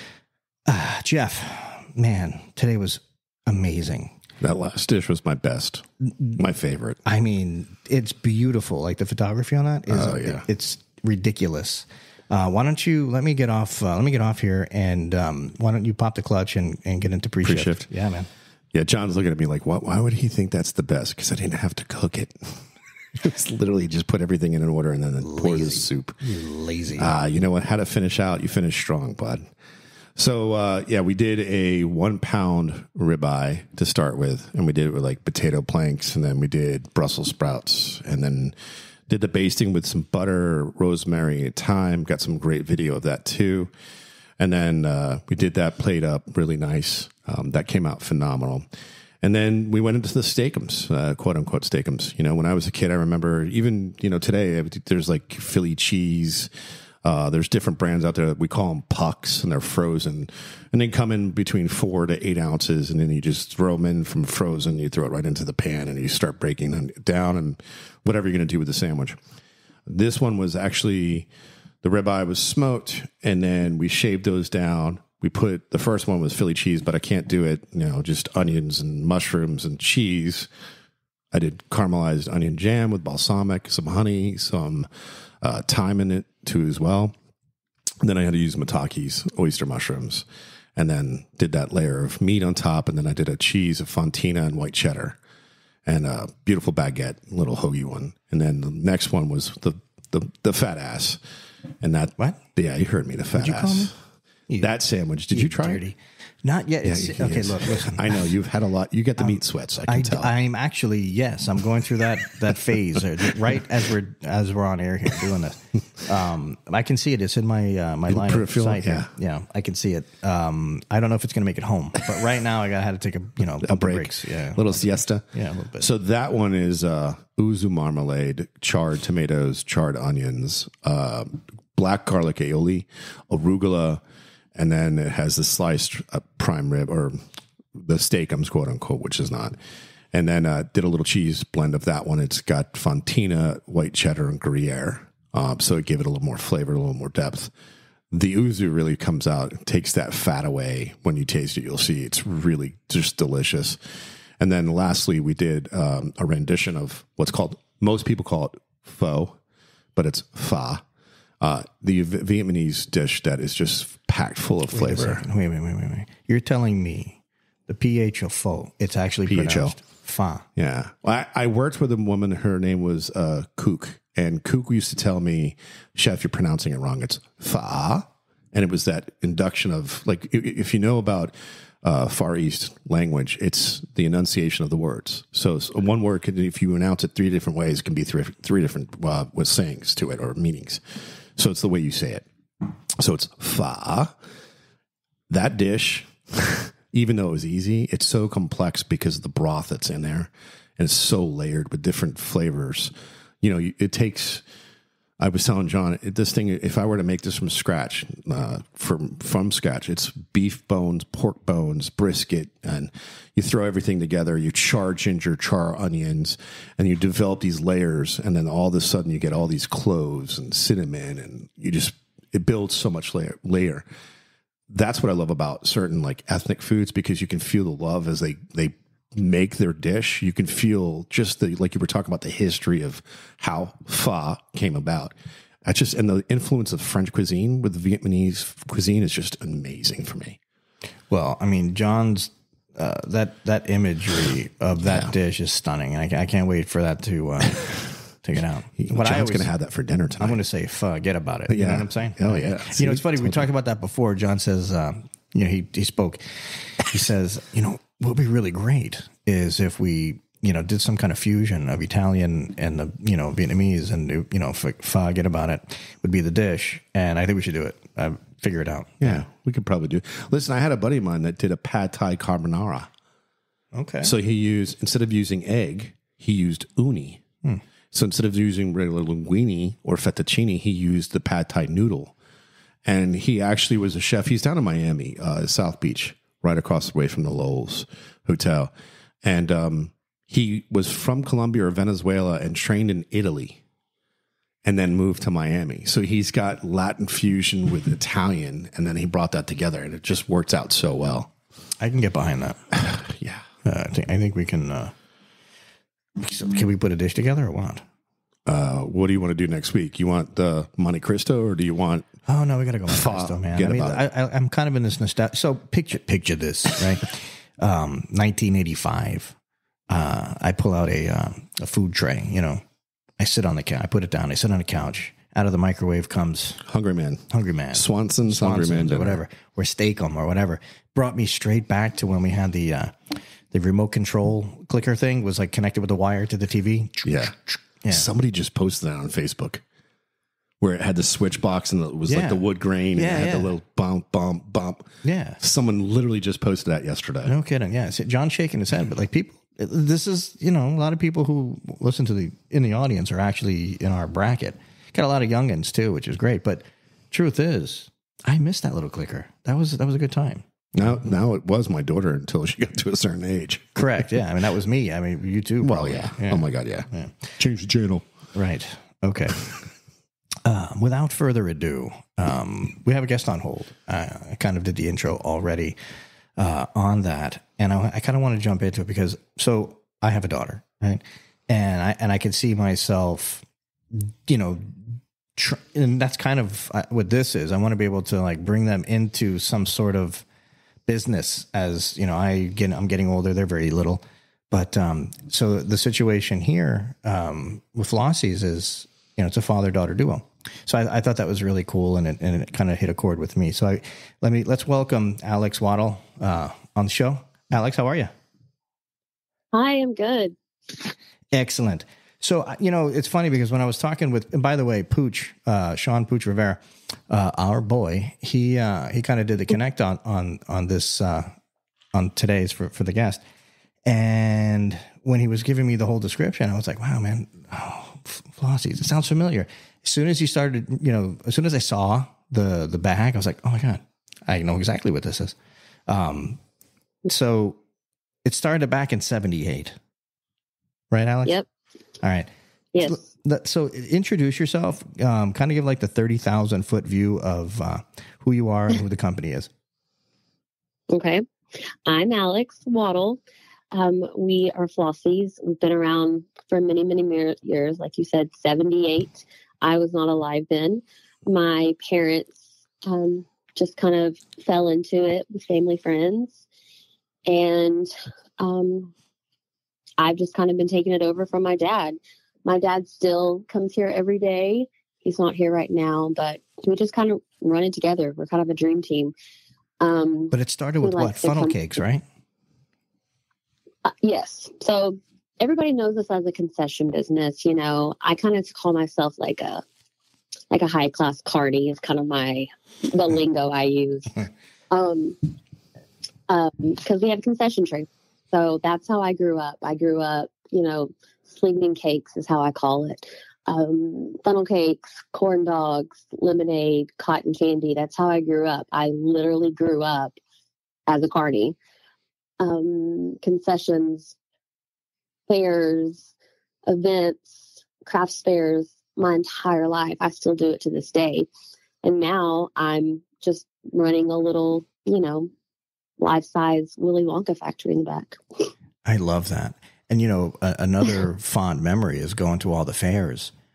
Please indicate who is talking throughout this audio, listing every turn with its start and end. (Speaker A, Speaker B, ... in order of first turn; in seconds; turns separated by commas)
Speaker A: 0.7-4.2, Speaker B: 4.4-7.0, Speaker A: 7.0-18.3, Speaker B: 9.9-10.4, Speaker B: 17.4-17.9, Speaker B: 18.7-26.2, Speaker A: 25.2-27.1, Speaker B: 27.0-29.4, Speaker B: 30.1-38.5, Speaker B: 39.1-43.7, Speaker B: 44.4-48.7, Speaker B: 49.2-56.5, Speaker B: 57.0-69.2, Speaker B: 69.9-71.3, Speaker B: 71.8-80.5, Speaker B: 81.3-84.9, Speaker B: 85.4-87.1, Speaker B: 88.0-90.2, Speaker B: 90.8-95.2, Speaker B: 95.8-101.2, Speaker B: 101.8-103.9, Speaker A: 103.3-103.9, Speaker B: 104.6-105.8, Speaker A: 105.3-108.3, Speaker B: 106.8-110.3, Speaker A: 109.2-125.9, Speaker B: 118.1-119.1, Speaker B: 123.6-125.2, Speaker B: 125.8-134.0, Speaker B: 134.5-137.2, Speaker B: 137.7-139.6, Speaker B: 140.1-147.5, Speaker B: 148.1-153.8, Speaker B: 154.4-159.4, Speaker B: 159.9-160.8, Speaker B: 161.4-165.2, Speaker A: 164.7-170.4, Speaker B: 169.3-169.8, Speaker B: 170.6-192.2, Speaker B: 192.9-194.2, Speaker B: 195.3-204.4, Speaker B: 205.2-223.8, Speaker B: 224.7-235.1, Speaker B: 235.6-240.4, Speaker A: 241.1-249.5, Speaker B: 244.8-245.1, Speaker B: 248.8-250.4, Speaker A: 250.2-269.2, Speaker B: 251.5-253.5, Speaker B: 269.0-272.9, Speaker A: 273.7-274.1, Speaker B: 274.0-277.2, Speaker B: 277.9-282.1, Speaker B: 282.8-288.7, Speaker B: 289.2-293.6, Speaker B: 294.6-301.3, Speaker A: 301.8-302.6, Speaker B: 302.7-303.5, Speaker A: 303.6-304.9, Speaker A: 306.2-307.8, Speaker B: 308.4-312.1, Speaker A: 312.3-319.4, Speaker B: 312.9-314.0, Speaker A: 319.9-322.6, Speaker A: 323.2-326.6, Speaker B: 326.6-329.2, Speaker A: 327.3-338.1, Speaker B: 337.0-337.4, Speaker B: 337.9-339.6, Speaker B: 340.6-344.9, Speaker A: 342.1-343.5, Speaker A: 345.0-345.4, Speaker B: 345.4-347.3, Speaker A: 347.2-361.0, Speaker B: 360.8-364.0, Speaker A: 363.8-367.3, Speaker B: 365.6-368.0, Speaker A: 368.3-369.4, Speaker A: 370.4-375.8, Speaker A: 376.4-390.2, Speaker A: 390.9-408.1, Speaker C: 409.5-410.4, Speaker A: 411.3-421.3, Speaker A: 421.9-423.2, Speaker A: 423.9-435.4, Speaker A: 435.9-436.4, Speaker A: 437.0-437.6, Speaker A: 438.2-439.8, Speaker A: 440.9-441.4, Speaker A: 442.0-442.3, Speaker C: 442.7-443.0, Speaker A: 442.8-449.5, Speaker C: 450.9-453.2, Speaker C: 453.7-466.4, Speaker C: 467.2-468.9, Speaker C: 470.0-479.1, Speaker C: 479.8-481.7, Speaker A: 480.3-482.0, Speaker C: 483.8-489.6, Speaker C: 490.5-494.2, Speaker C: 494.7-495.3, Speaker C: 496.3-510.1, Speaker C: 510.9-511.5, Speaker C: 512.4-514.1, Speaker C: 515.3-516.1, Speaker C: 516.7-521.3, Speaker C: 521.8-525.3, Speaker C: 526.0-528.5, Speaker A: 528.8-533.3